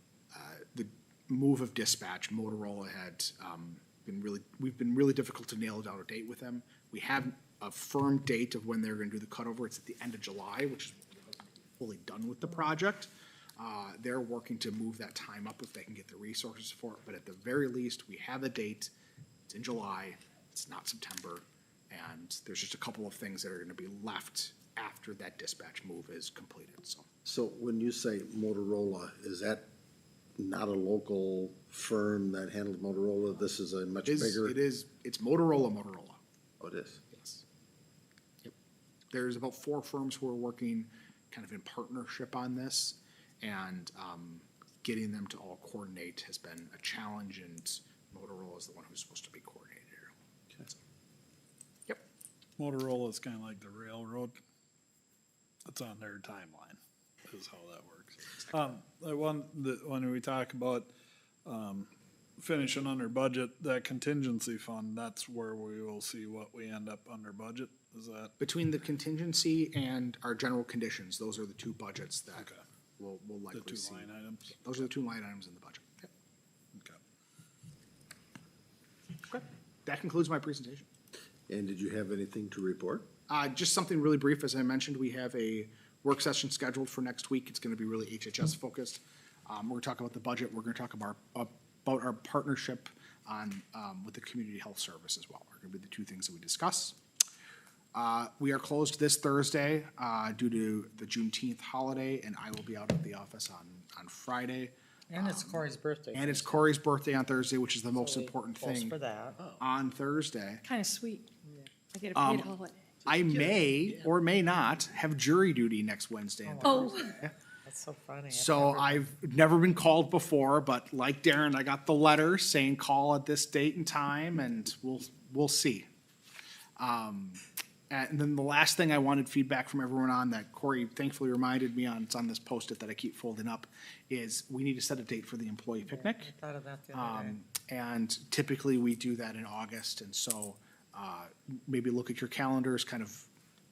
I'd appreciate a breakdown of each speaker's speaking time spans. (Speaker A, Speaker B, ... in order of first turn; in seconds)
Speaker A: 0.3-18.9, 19.5-27.1, 34.0-36.2, 37.1-37.4, 39.1-50.1, 68.4-72.5, 73.0-76.1, 79.3-80.9, 83.3-97.0, 97.9-109.0, 109.6-110.6, 112.1-112.5, 113.1-117.3, 118.3-125.9, 126.8-136.3, 136.9-143.3
Speaker B: 27.2-29.7, 30.4-34.5, 36.6-37.0, 81.5-83.1
Speaker C: 52.6-54.4, 55.7-60.9, 61.5-68.3, 72.4-72.6, 73.5-74.6
Speaker D: 105.1-106.7, 107.9-109.4, 116.4-119.0, 135.9-137.4
Speaker E: 110.7-111.3, 111.9-113.5, 116.7-117.0